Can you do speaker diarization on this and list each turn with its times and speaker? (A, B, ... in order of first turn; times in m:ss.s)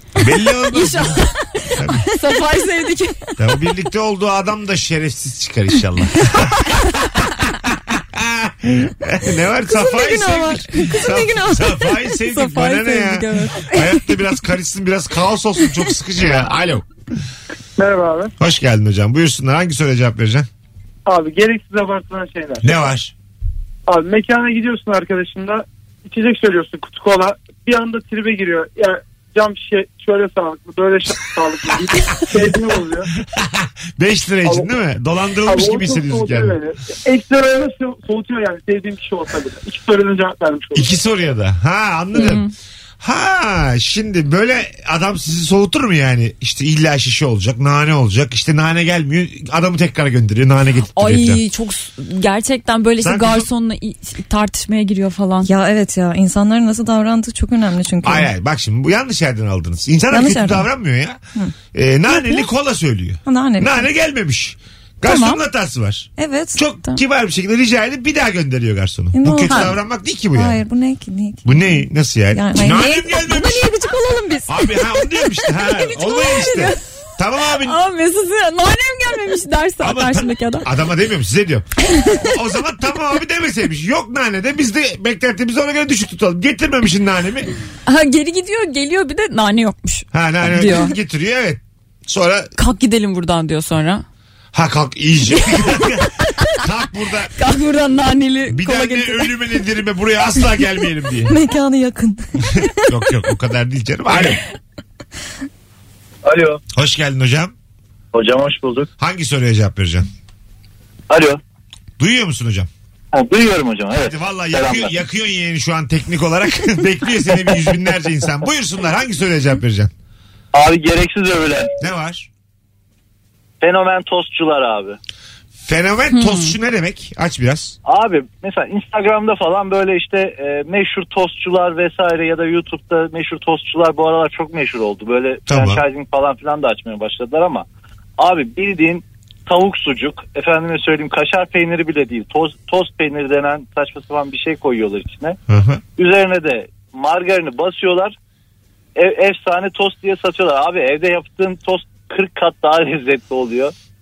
0:00.2-0:02.1 A
0:00.7-0:03.3 B
0:03.4-0:16.8 A
0:09.7-0:12.0 C
0:12.3-0:13.9 B
0:17.8-0:18.3 D
0:18.4-0:20.5 A
0:21.1-0:22.8 D
0:22.6-0:23.1 A
0:23.9-0:33.1 D
0:33.2-0:36.6 A
0:34.4-0:34.7 D
0:35.4-0:40.9 D
0:40.8-0:42.4 A
0:42.1-0:42.5 B
0:43.0-0:51.4 A
0:51.0-0:55.5 B
0:53.0-0:53.5 A
0:55.4-0:58.3 C
0:58.0-1:01.2 A
1:00.1-1:00.7 C
1:01.7-1:10.6 A
1:03.2-1:03.9 C
1:05.0-1:05.4 B
1:06.2-1:06.6 C
1:09.1-1:09.8 C
1:09.5-1:09.7 B
1:10.3-1:11.7 C
1:11.4-1:13.7 A
1:12.3-1:14.7 C
1:14.5-1:17.8 A
1:15.6-1:16.8 B
1:17.5-1:20.7 B
1:19.8-1:27.5 A
1:27.9-1:31.0 B
1:30.1-1:32.5 A
1:32.6-1:34.0 B
1:34.5-1:37.3 A
1:37.4-1:39.3 B
1:38.5-1:41.4 A
1:41.3-1:42.7 C
1:42.8-1:44.4 A
1:46.2-1:46.6 E
1:46.7-1:47.5 A
1:48.1-1:48.9 E
1:49.0-1:50.1 A
1:51.1-1:51.4 E
1:52.0-1:52.7 A
1:53.1-1:54.9 E
1:54.0-1:59.9 A
2:00.5-2:01.7 E
2:01.8-2:02.3 A
2:03.6-2:05.0 E
2:05.6-2:07.8 A
2:06.1-2:06.5 B
2:07.9-2:17.6 E
2:15.5-2:15.8 A
2:18.2-2:25.4 E
2:25.5-2:25.8 A
2:26.0-2:28.2 E
2:29.0-2:33.7 E